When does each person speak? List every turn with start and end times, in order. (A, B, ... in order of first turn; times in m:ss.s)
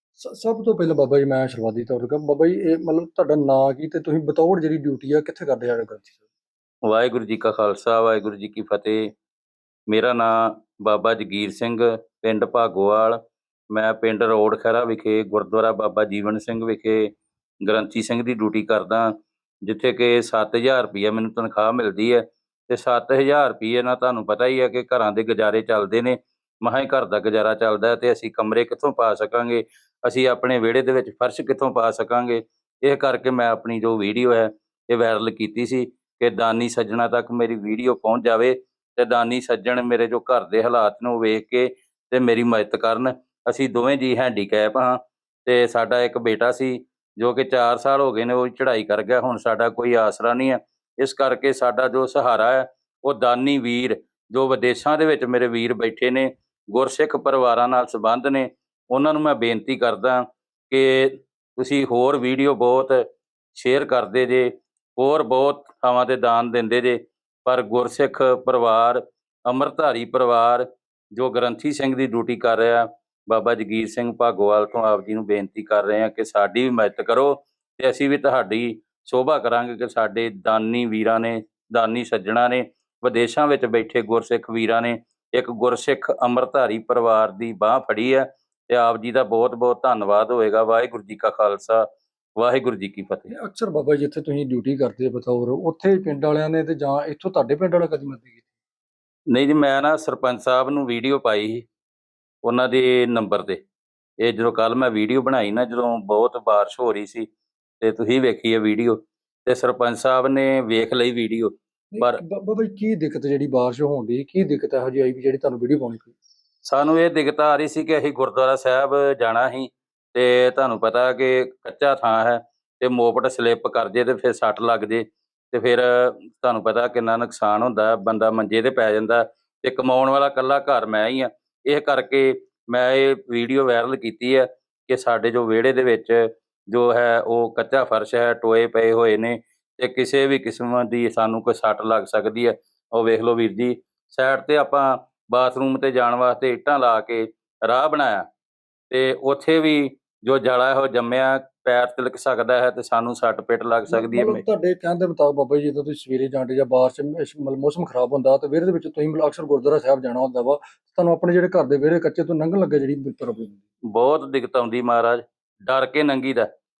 0:00.2-0:06.2 A
0:06.8-0:09.1 B
0:09.9-0:13.2 B
0:13.7-0:17.1 B
0:17.6-1:03.0 B
1:03.5-1:33.3 B
1:33.3-1:38.4 A
1:39.3-1:41.6 B
1:42.4-1:43.6 B
1:44.2-1:47.3 B
1:47.8-1:52.2 B
1:51.9-1:56.1 A
1:56.6-2:28.3 B
2:28.9-2:34.4 B
2:33.9-2:43.6 A
2:43.9-2:46.5 B